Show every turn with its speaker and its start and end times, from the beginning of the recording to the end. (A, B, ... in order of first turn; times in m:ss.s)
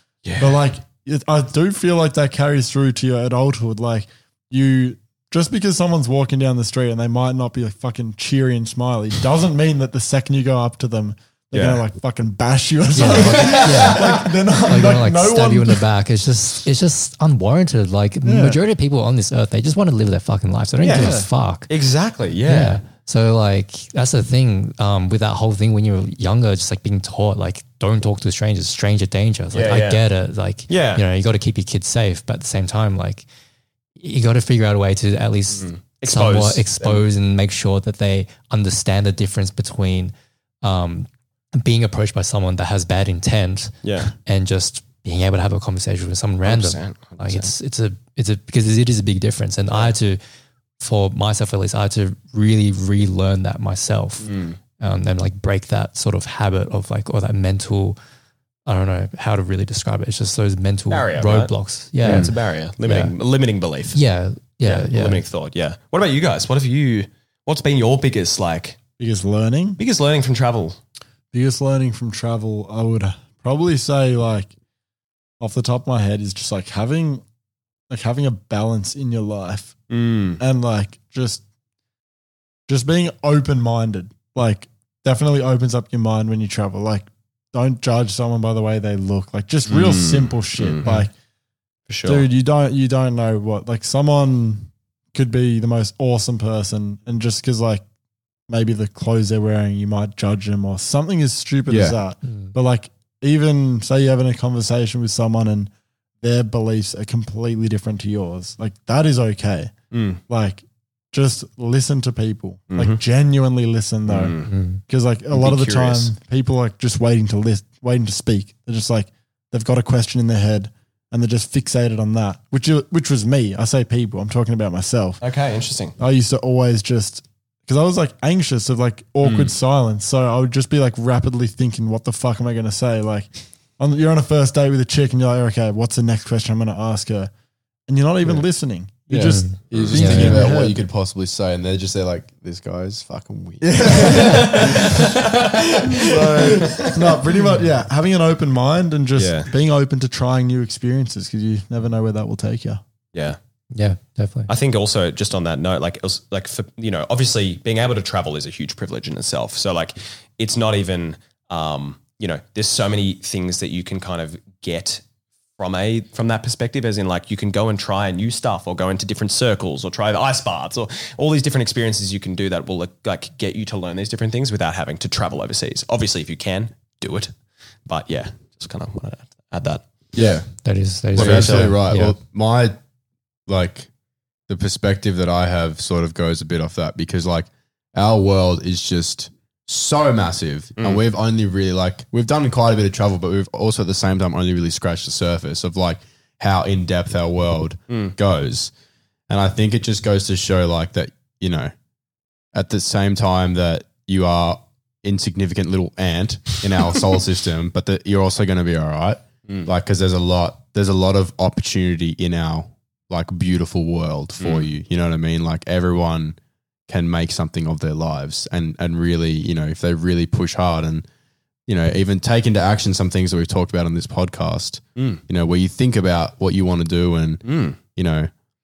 0:00.2-0:00.6 A
0:00.4-0:15.8 B
0:11.5-0:11.8 A
0:12.9-0:21.7 C
0:13.2-0:14.2 D
0:18.2-0:18.6 B
0:20.8-0:22.8 A
0:20.8-0:21.3 B
0:22.5-0:33.2 C
0:29.5-0:30.0 A
0:30.7-0:31.0 A
0:34.0-0:50.2 C
0:35.5-0:37.0 A
0:43.8-0:44.1 A
0:46.4-0:47.5 A
0:50.8-0:58.0 C
0:54.2-0:54.6 A
0:58.6-1:03.1 C
1:00.9-1:04.0 A
1:03.9-1:05.2 C
1:04.6-1:08.8 A
1:09.0-1:09.8 B
1:09.8-1:10.8 A
1:11.3-1:14.5 B
1:15.4-1:17.2 B
1:17.9-1:19.8 B
1:19.9-1:20.4 A
1:20.4-1:21.4 B
1:22.7-1:31.1 B
1:29.6-1:30.9 A
1:31.9-1:32.3 A
1:32.0-1:37.8 B
1:38.5-1:45.7 B
1:41.7-1:42.0 D
1:42.2-1:42.5 C
1:46.2-1:49.7 B
1:49.9-1:50.2 A
1:50.3-2:05.2 B
1:52.7-1:53.0 A
1:54.1-1:54.5 A
1:54.4-1:54.8 C
1:55.3-1:56.1 A
2:05.2-2:06.0 A
2:06.0-2:17.3 B
2:09.2-2:09.5 A
2:17.9-2:20.8 B
2:19.1-2:25.6 D
2:19.1-2:20.5 C
2:19.7-2:20.1 A
2:23.6-2:25.0 B
2:24.0-2:26.9 A
2:25.9-2:32.8 B
2:29.2-2:29.5 A
2:33.1-2:33.4 A
2:33.7-2:34.5 C
2:34.5-2:45.0 A
2:45.6-2:57.3 A
2:57.9-2:59.8 A
3:00.1-3:00.5 D
3:00.6-3:02.2 C
3:01.1-3:01.7 A
3:01.1-3:02.8 D
3:03.5-3:03.9 D
3:04.5-3:18.7 D
3:19.3-3:21.7 D
3:22.5-3:36.4 D
3:34.4-3:34.7 A
3:36.9-3:41.0 D
3:41.7-3:48.3 D
3:45.0-3:45.2 A
3:47.4-3:47.8 A